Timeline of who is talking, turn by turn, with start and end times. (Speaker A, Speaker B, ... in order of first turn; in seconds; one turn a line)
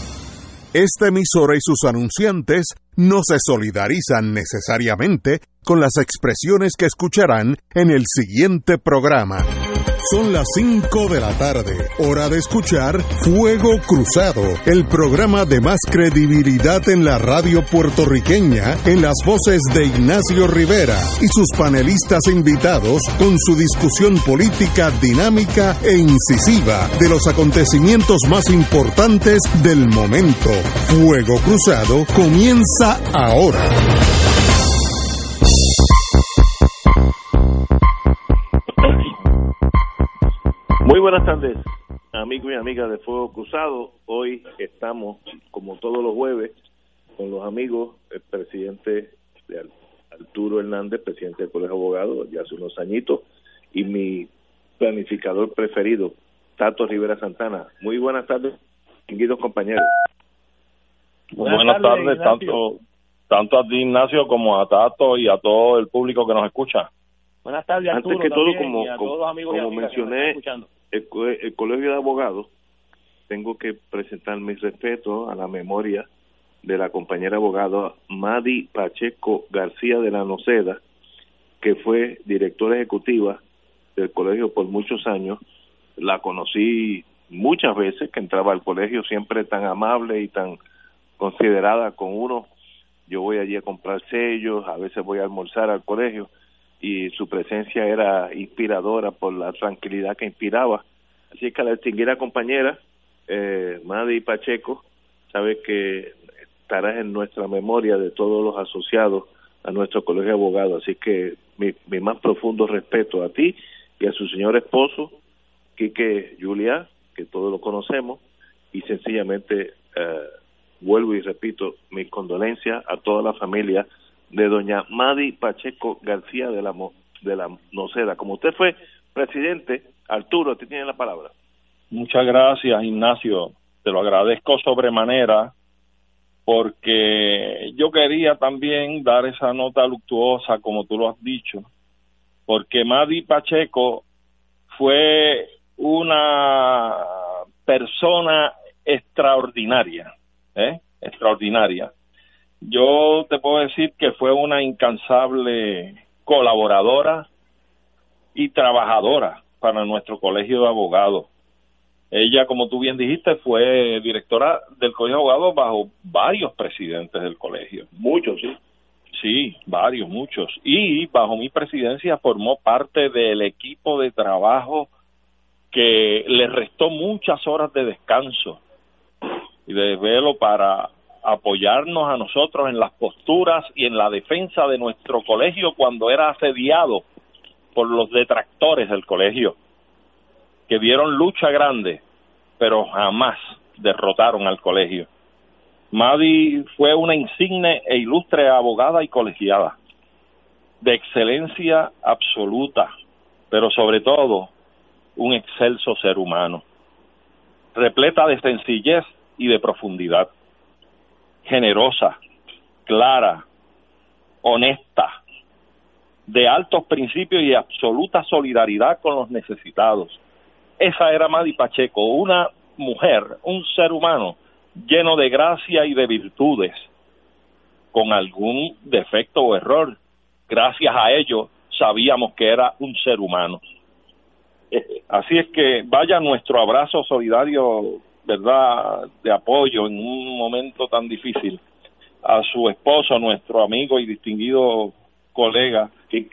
Speaker A: 0.7-9.5
Speaker A: 10.0-33.8
Speaker B: 40.8-46.5
Speaker B: 47.1-58.6
Speaker B: 59.1-59.9
Speaker C: 61.3-62.8
Speaker D: 61.4-62.6
Speaker C: 63.3-66.9
Speaker D: 67.4-70.7
Speaker B: 67.9-70.4
Speaker B: 70.9-72.5
Speaker B: 73.3-76.1
Speaker B: 76.6-80.8
Speaker B: 81.6-83.4
Speaker B: 84.0-85.4
Speaker B: 86.0-90.6
Speaker B: 91.2-92.5
Speaker B: 93.1-115.2
Speaker B: 115.8-120.3
Speaker B: 120.8-131.3
Speaker C: 131.9-135.5
Speaker C: 136.5-141.7
Speaker C: 142.5-144.0
Speaker C: 144.7-151.9
Speaker C: 152.6-157.3
Speaker C: 158.3-161.3
Speaker C: 162.1-167.9
Speaker B: 168.0-168.6
Speaker C: 169.1-174.9
Speaker C: 175.7-178.6
Speaker C: 179.7-187.0
Speaker C: 187.7-189.6
Speaker C: 190.7-192.0
Speaker C: 192.6-195.1
Speaker C: 195.9-199.8
Speaker C: 200.8-202.9
Speaker C: 203.5-204.5
Speaker C: 205.2-206.6
Speaker C: 207.7-210.3
Speaker C: 211.4-212.2
Speaker C: 212.8-213.4
Speaker C: 214.4-215.2
Speaker C: 216.3-220.2
Speaker C: 220.8-226.9
Speaker C: 227.9-230.0
Speaker C: 230.5-233.6
Speaker C: 234.7-241.6
Speaker C: 242.2-245.9